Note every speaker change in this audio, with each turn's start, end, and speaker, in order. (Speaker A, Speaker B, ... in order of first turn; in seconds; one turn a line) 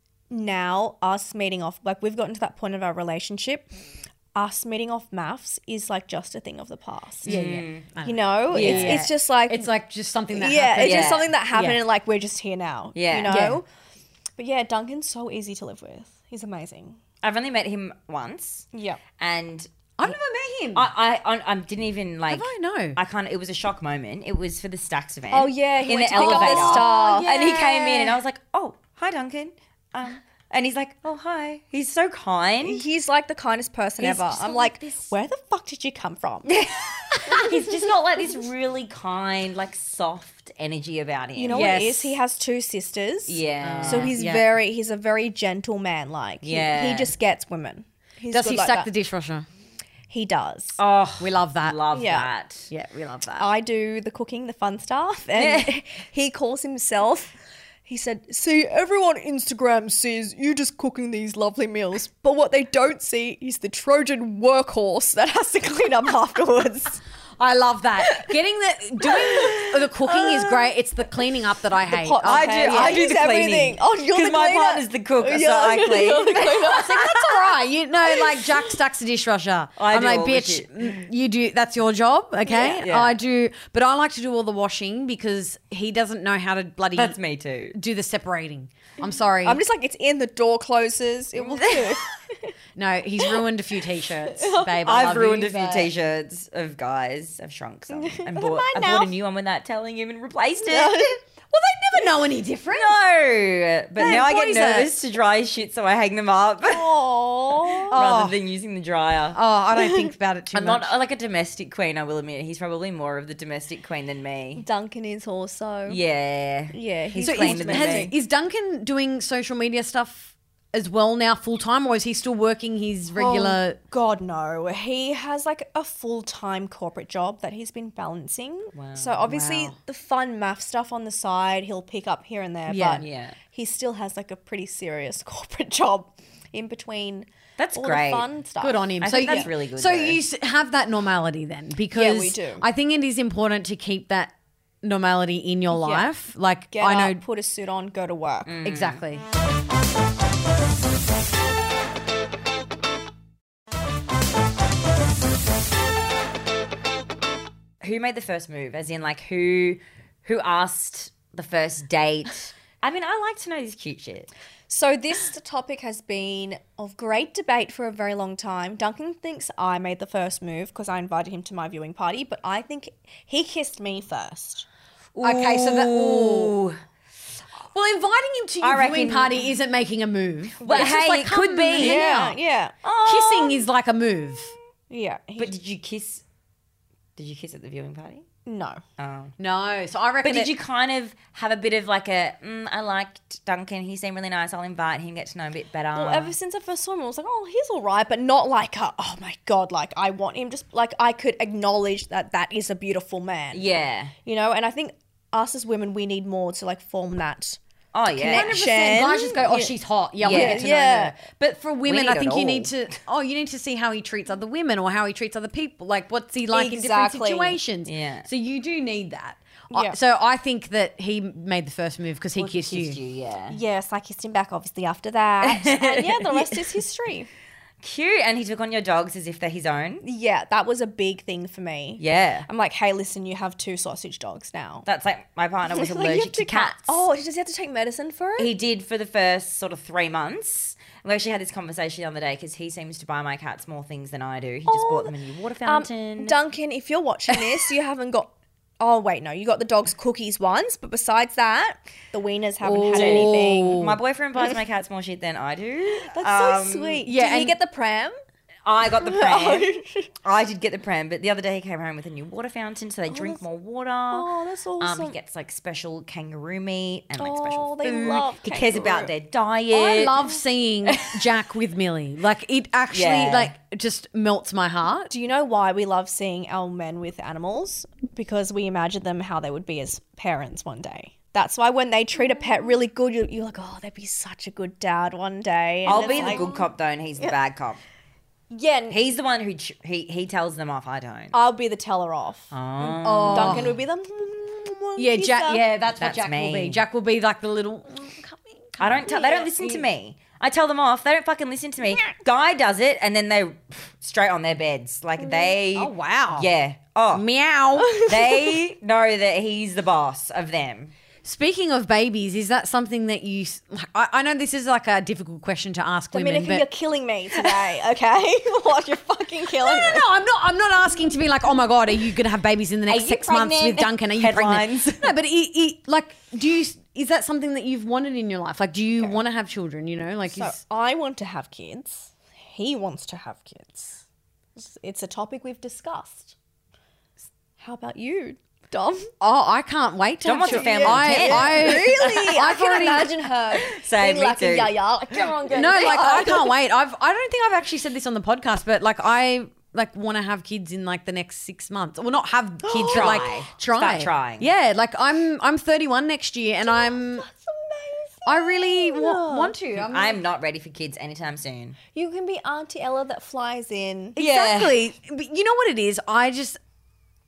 Speaker A: 0.3-3.7
Speaker A: 4.3-7.3
Speaker B: 7.2-11.8
Speaker C: 7.3-7.8
Speaker A: 8.0-9.7
Speaker C: 8.5-9.1
Speaker A: 10.3-13.7
Speaker C: 10.8-11.3
Speaker C: 12.9-13.4
Speaker B: 13.2-13.6
Speaker A: 14.4-17.0
Speaker C: 17.2-18.7
Speaker A: 18.7-19.0
Speaker C: 19.2-20.1
Speaker B: 20.0-20.9
Speaker C: 20.7-32.8
Speaker B: 22.3-23.0
Speaker A: 25.3-27.6
Speaker B: 26.1-28.1
Speaker A: 32.6-36.5
Speaker C: 34.0-35.1
Speaker C: 36.5-42.2
Speaker A: 41.4-48.9
Speaker C: 43.3-44.2
Speaker B: 43.6-44.5
Speaker C: 46.4-47.1
Speaker B: 48.3-49.5
Speaker A: 50.1-50.8
Speaker C: 50.8-52.7
Speaker B: 51.2-51.8
Speaker A: 51.9-52.3
Speaker B: 52.7-53.5
Speaker A: 53.4-57.4
Speaker C: 55.4-55.8
Speaker A: 57.9-67.0
Speaker B: 67.4-73.1
Speaker A: 68.0-68.3
Speaker A: 69.0-70.7
Speaker A: 71.8-77.2
Speaker C: 72.2-77.2
Speaker B: 76.6-87.2
Speaker C: 79.8-81.0
Speaker A: 82.5-82.8
Speaker C: 82.5-83.2
Speaker C: 86.9-87.8
Speaker B: 87.7-89.6
Speaker A: 89.0-92.5
Speaker B: 92.8-95.9
Speaker A: 94.2-94.8
Speaker C: 94.8-101.2
Speaker A: 97.9-99.1
Speaker A: 100.7-101.2
Speaker B: 101.5-103.0
Speaker C: 102.7-107.0
Speaker B: 104.0-104.9
Speaker A: 106.6-108.0
Speaker B: 107.9-108.4
Speaker C: 107.9-109.4
Speaker B: 109.3-110.9
Speaker A: 109.7-110.1
Speaker C: 110.5-114.6
Speaker A: 114.6-116.0
Speaker C: 115.9-118.1
Speaker A: 116.7-118.2
Speaker B: 117.2-123.8
Speaker A: 123.1-139.5
Speaker C: 128.7-129.2
Speaker B: 129.3-129.8
Speaker B: 132.7-133.1
Speaker C: 133.0-133.4
Speaker C: 137.6-138.3
Speaker B: 138.6-147.2
Speaker C: 139.0-140.2
Speaker A: 141.9-142.7
Speaker A: 145.7-146.1
Speaker A: 146.7-148.5
Speaker C: 148.4-149.0
Speaker B: 148.7-149.2
Speaker C: 157.8-164.3
Speaker A: 164.7-174.7
Speaker C: 175.2-176.8
Speaker B: 175.2-176.6
Speaker B: 177.7-182.4
Speaker C: 178.6-179.4
Speaker C: 180.6-182.1
Speaker A: 181.8-182.7
Speaker C: 182.8-183.7
Speaker B: 183.1-184.6
Speaker A: 184.9-185.6
Speaker C: 185.4-186.2
Speaker C: 187.2-188.2
Speaker A: 188.5-188.8
Speaker C: 189.0-189.3
Speaker B: 189.4-190.6
Speaker C: 190.2-196.3
Speaker A: 195.9-203.7
Speaker C: 203.5-204.1
Speaker A: 204.2-207.6
Speaker C: 207.9-208.6
Speaker A: 208.1-209.7
Speaker B: 208.3-223.0
Speaker C: 210.2-210.7
Speaker A: 210.3-211.2
Speaker C: 211.8-212.7
Speaker A: 216.5-217.6
Speaker C: 217.9-218.3
Speaker A: 219.7-220.0
Speaker C: 222.4-223.6
Speaker A: 223.5-227.3
Speaker C: 225.5-226.7
Speaker C: 227.8-230.0
Speaker A: 230.0-234.8
Speaker C: 232.0-232.5
Speaker C: 234.8-237.0
Speaker A: 235.7-238.5
Speaker C: 238.4-246.4
Speaker A: 244.7-245.1
Speaker A: 245.7-253.9
Speaker B: 252.6-254.0
Speaker C: 253.0-257.1
Speaker A: 256.0-258.2
Speaker B: 257.1-257.6
Speaker C: 258.7-259.7
Speaker A: 258.9-260.1
Speaker C: 260.2-264.3
Speaker A: 263.1-263.4
Speaker A: 264.1-265.1
Speaker C: 264.8-270.2
Speaker A: 267.2-269.1
Speaker B: 269.7-275.1
Speaker C: 272.9-273.5
Speaker A: 275.1-287.4
Speaker C: 285.9-287.8
Speaker B: 285.9-286.5
Speaker A: 288.5-289.0
Speaker C: 288.9-291.4
Speaker A: 291.3-292.5
Speaker C: 292.5-293.7
Speaker B: 292.8-293.8
Speaker A: 293.2-295.6
Speaker B: 295.0-299.8
Speaker C: 296.0-296.8
Speaker C: 298.8-307.3
Speaker A: 299.0-299.5
Speaker A: 305.2-305.5
Speaker B: 305.8-306.5
Speaker B: 307.1-307.9
Speaker A: 307.8-308.6
Speaker C: 308.0-310.9
Speaker B: 311.2-316.7
Speaker A: 316.1-320.1
Speaker B: 319.6-330.6
Speaker C: 322.9-325.1
Speaker A: 330.3-334.0
Speaker A: 334.6-336.4
Speaker A: 337.6-339.1
Speaker B: 339.2-343.1
Speaker C: 340.2-342.4
Speaker A: 340.4-346.5
Speaker C: 343.5-344.7
Speaker B: 345.5-357.3
Speaker A: 352.6-353.4
Speaker C: 352.9-354.5
Speaker A: 356.6-359.5
Speaker B: 358.3-360.2
Speaker C: 359.8-361.8
Speaker A: 361.9-364.2
Speaker C: 364.2-364.8
Speaker B: 364.2-366.6